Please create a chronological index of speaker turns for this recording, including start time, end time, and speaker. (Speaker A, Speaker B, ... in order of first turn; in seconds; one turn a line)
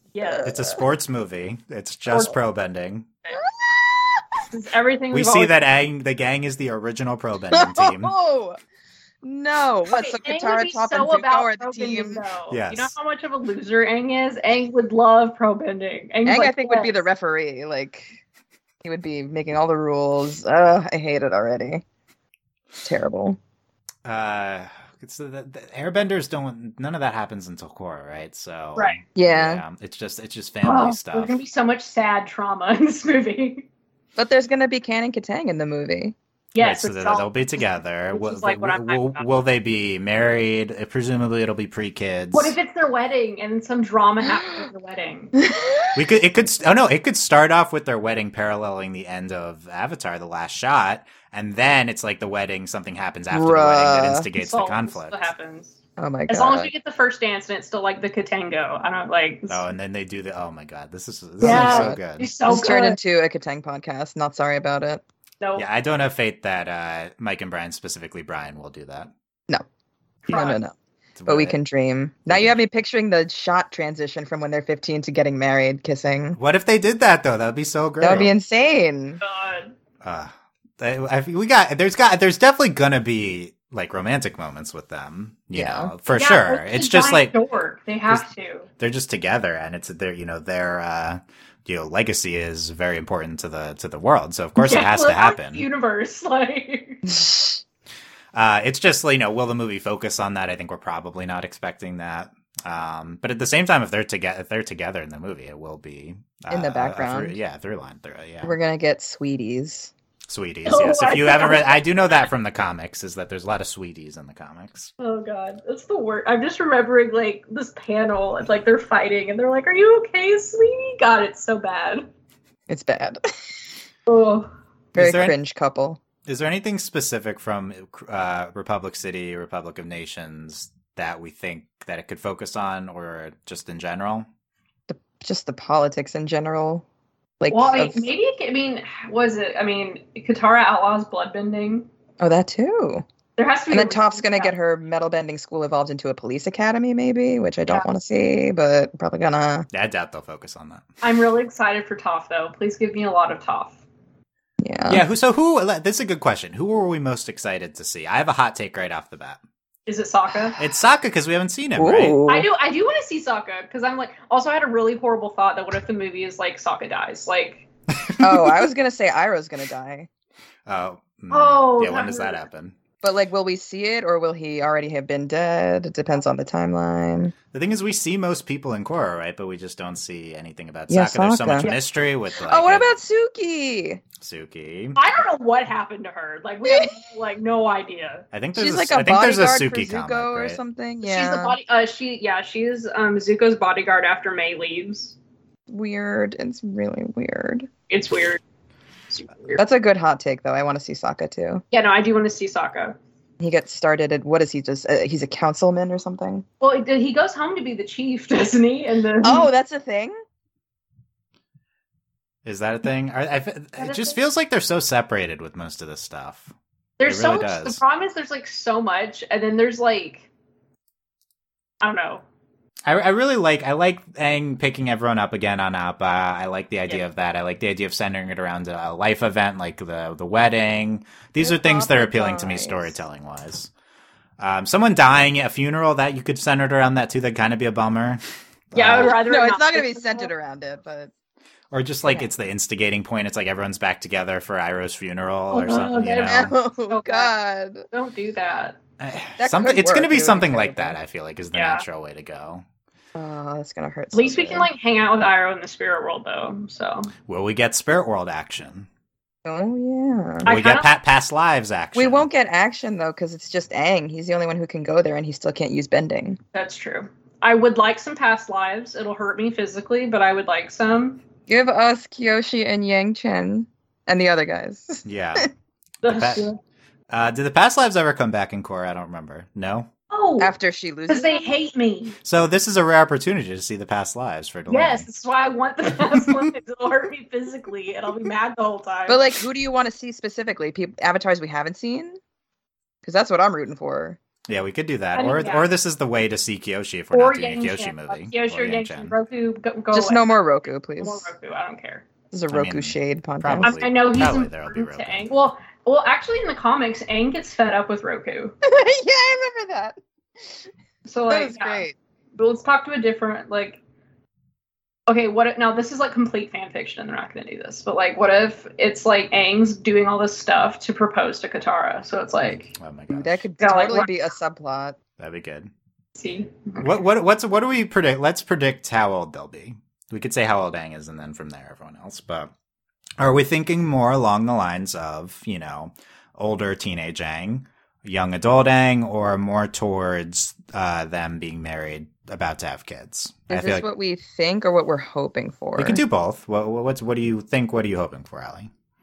Speaker A: 0.1-0.5
Speaker B: 0.2-0.8
Speaker C: 0.4-3.1
Speaker A: 2.1-2.4
Speaker B: 3.3-4.4
Speaker A: 4.5-5.5
Speaker C: 5.1-8.1
Speaker B: 7.5-8.6
Speaker B: 9.2-12.2
Speaker A: 9.9-17.0
Speaker C: 12.5-12.9
Speaker B: 16.3-18.1
Speaker B: 18.8-21.8
Speaker B: 22.8-23.4
Speaker C: 24.1-31.4
Speaker A: 28.8-29.0
Speaker B: 29.2-29.6
Speaker A: 30.6-33.7
Speaker B: 34.2-36.2
Speaker A: 36.5-37.3
Speaker C: 36.6-42.6
Speaker A: 38.1-39.3
Speaker A: 42.3-45.4
Speaker B: 45.4-46.0
Speaker C: 45.9-55.3
Speaker B: 53.3-54.3
Speaker A: 54.4-55.8
Speaker B: 56.0-56.7
Speaker A: 56.3-59.6
Speaker C: 59.5-62.3
Speaker B: 61.4-65.0
Speaker A: 61.4-63.0
Speaker C: 65.6-69.1
Speaker A: 70.3-70.6
Speaker B: 70.3-70.8
Speaker C: 71.2-71.6
Speaker B: 71.3-76.4
Speaker C: 72.3-72.6
Speaker C: 76.4-78.3
Speaker B: 78.0-79.2
Speaker A: 79.2-79.7
Speaker C: 80.0-87.3
Speaker B: 85.5-85.9
Speaker A: 86.1-88.7
Speaker C: 88.8-95.7
Speaker A: 94.6-97.0
Speaker B: 97.1-97.6
Speaker C: 98.3-108.5
Speaker B: 106.5-107.4
Speaker B: 108.4-109.9
Speaker C: 110.3-114.9
Speaker A: 110.7-111.8
Speaker A: 115.0-122.1
Speaker B: 122.7-123.3
Speaker A: 124.1-124.5
Speaker B: 125.0-126.0
Speaker C: 125.0-125.4
Speaker C: 126.3-134.3
Speaker B: 134.9-136.8
Speaker B: 137.4-138.1
Speaker A: 137.5-141.9
Speaker B: 142.2-143.0
Speaker A: 143.4-144.5
Speaker B: 143.7-149.7
Speaker C: 149.7-150.8
Speaker A: 151.0-153.8
Speaker B: 154.6-155.0
Speaker C: 154.9-159.4
Speaker A: 159.9-160.6
Speaker C: 160.6-162.2
Speaker B: 161.8-162.5
Speaker A: 162.3-167.7
Speaker C: 168.0-168.7
Speaker B: 168.2-170.1
Speaker C: 170.7-172.8
Speaker A: 171.3-172.4
Speaker B: 173.0-177.3
Speaker C: 177.5-182.9
Speaker B: 180.9-181.8
Speaker B: 182.4-184.0
Speaker C: 184.2-185.1
Speaker A: 185.0-188.2
Speaker B: 186.7-187.0
Speaker C: 188.3-190.6
Speaker B: 188.6-191.6
Speaker A: 191.0-195.2
Speaker B: 195.7-197.7
Speaker A: 197.9-198.4
Speaker A: 199.1-199.6
Speaker B: 199.6-201.6
Speaker A: 201.7-203.0
Speaker B: 203.4-206.4
Speaker A: 206.6-209.5
Speaker B: 209.2-210.2
Speaker C: 212.4-216.5
Speaker A: 213.8-214.2
Speaker A: 217.0-220.3
Speaker C: 217.1-217.8
Speaker A: 221.8-222.2
Speaker C: 222.9-233.7
Speaker B: 231.4-233.0
Speaker C: 234.4-239.2
Speaker A: 238.7-240.3
Speaker B: 239.0-241.1
Speaker C: 241.7-246.5
Speaker A: 245.5-247.3
Speaker B: 246.3-247.8
Speaker A: 247.9-248.8
Speaker C: 249.0-252.6
Speaker B: 249.4-251.0
Speaker A: 251.5-251.8
Speaker B: 253.2-254.7
Speaker A: 254.1-257.1
Speaker C: 257.3-258.9
Speaker B: 259.4-260.6
Speaker A: 260.4-260.9
Speaker C: 260.4-262.3
Speaker B: 261.9-266.4
Speaker A: 266.5-271.2
Speaker B: 271.5-275.5
Speaker C: 275.1-275.5
Speaker A: 276.0-276.6
Speaker C: 276.1-276.5
Speaker C: 277.1-279.9
Speaker A: 280.1-280.5
Speaker B: 280.4-281.5
Speaker A: 281.1-282.2
Speaker C: 282.2-285.1
Speaker A: 284.7-289.3
Speaker B: 289.1-292.2
Speaker B: 293.0-294.2
Speaker C: 294.5-299.1
Speaker A: 295.1-295.7
Speaker A: 297.1-300.3
Speaker B: 299.9-301.3
Speaker A: 301.0-302.1
Speaker B: 302.3-303.8
Speaker C: 302.5-305.3
Speaker A: 303.6-308.6
Speaker B: 308.6-310.0
Speaker A: 311.1-311.9
Speaker B: 311.3-312.0
Speaker A: 312.4-313.8
Speaker A: 315.1-322.7
Speaker C: 322.8-323.4
Speaker B: 323.1-325.0
Speaker A: 323.6-324.1
Speaker C: 325.2-325.7
Speaker A: 326.2-326.9
Speaker C: 326.8-332.5
Speaker C: 333.2-343.9
Speaker B: 343.5-346.0
Speaker C: 345.8-348.7